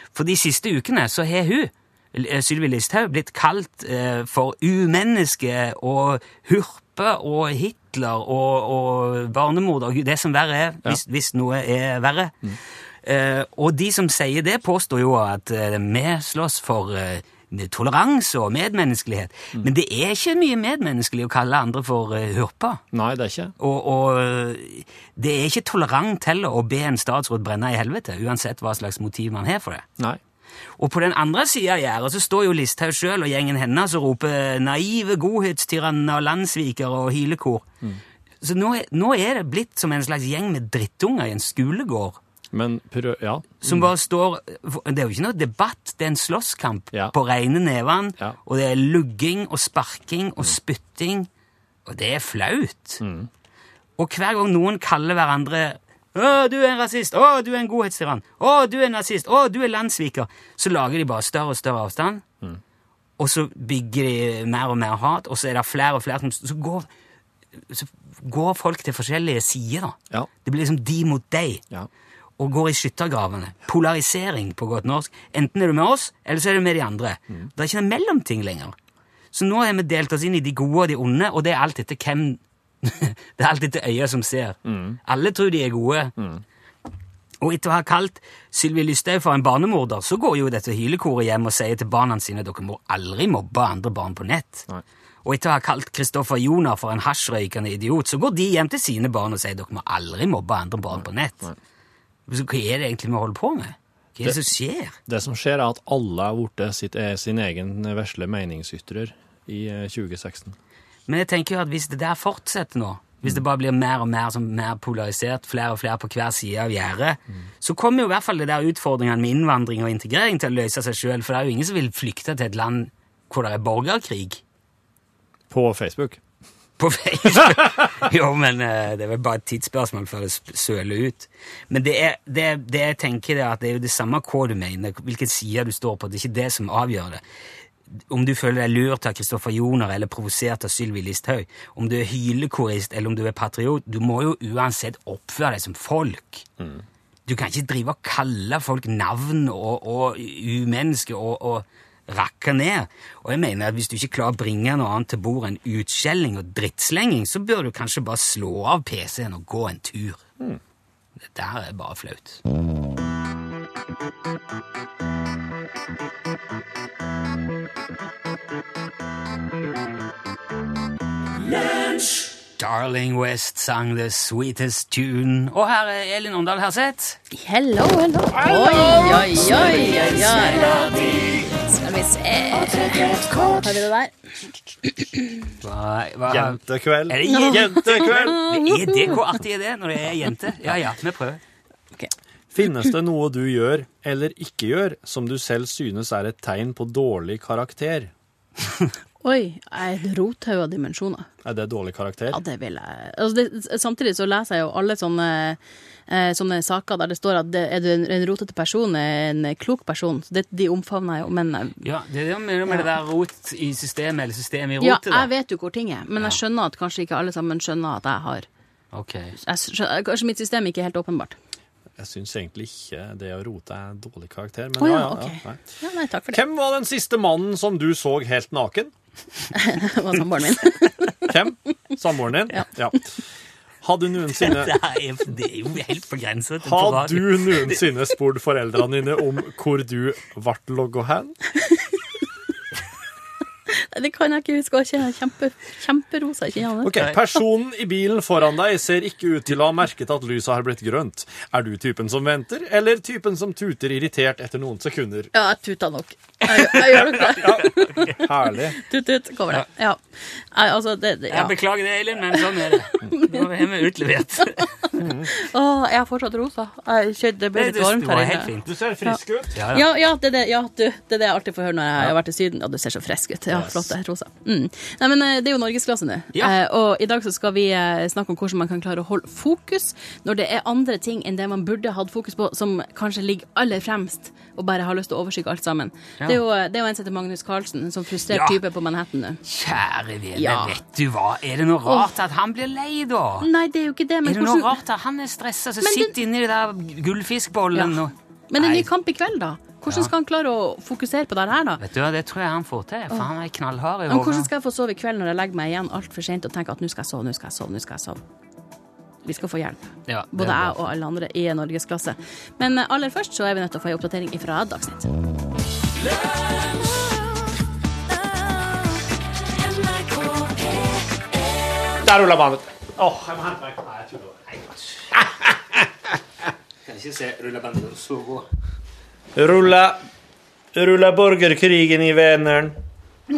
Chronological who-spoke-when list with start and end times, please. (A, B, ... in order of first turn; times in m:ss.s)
0:00.1-0:22.8 A
0:22.9-0:23.5 B
0:23.6-0:29.9 A
0:30.8-0:37.7 A
0:38.4-0:42.2 A
0:42.5-0:43.9 B
0:43.6-0:51.3 A
0:51.9-0:53.0 A
0:53.0-0:53.3 B
0:54.0-1:02.2 A
1:03.2-1:06.9 A
1:07.6-1:11.6 A
1:12.4-1:18.8 A
1:19.3-1:26.2 A
1:24.6-1:25.0 B
1:26.2-1:26.4 B
1:27.4-1:34.7 A
1:35.2-1:41.5 A
1:40.9-1:41.6 B
1:42.3-1:45.0 A
1:45.1-1:50.6 B
1:51.1-2:04.4 A
2:05.5-2:06.2 B
2:06.8-2:17.2 A
2:17.9-2:26.4 A
2:27.2-2:40.2 A
2:41.2-2:42.4 A
2:52.6-2:57.2 A
2:57.3-3:04.1 C
2:59.2-2:59.6 A
3:05.6-3:11.4 A
3:06.3-3:08.5 B
3:07.2-3:09.2 C
3:12.5-3:18.1 B
3:19.2-3:21.3 C
3:21.4-3:22.4 B
3:22.3-3:31.8 C
3:31.8-3:35.3 A
3:34.8-3:38.5 C
3:38.9-3:39.4 A
3:39.4-3:41.4 C
3:42.0-3:45.6 B
3:44.8-3:46.4 C
3:46.3-3:48.9 B
3:49.5-3:51.4 C
3:51.3-3:53.1 B
3:53.8-3:54.7 B
3:54.4-3:57.8 A
3:56.6-4:01.4 B
4:03.7-4:07.2 C
4:06.8-4:15.3 B
4:15.3-4:21.6 C
4:16.5-4:18.8 B
4:21.3-4:24.9 A
4:23.0-4:23.4 C
4:25.0-4:25.3 B
4:25.2-4:28.5 C
4:27.5-4:28.7 A
4:28.6-4:29.6 B
4:29.0-4:49.4 C
4:29.5-4:29.9 A
4:33.5-4:33.9 B
4:48.3-4:48.6 A
4:49.4-4:53.5 A
4:50.4-4:50.8 C
4:51.9-4:52.1 C
4:53.4-4:54.7 C
4:54.2-4:58.9 A
4:55.8-4:56.1 C
4:58.5-5:01.8 C
5:01.8-5:04.5 A
5:04.1-5:08.2 C
5:09.2-5:15.1 C
5:10.1-5:10.8 A
5:22.0-5:24.5 B
5:25.1-5:25.9 B
5:26.8-5:28.5 A
5:29.4-5:30.0 B
5:30.7-5:32.8 B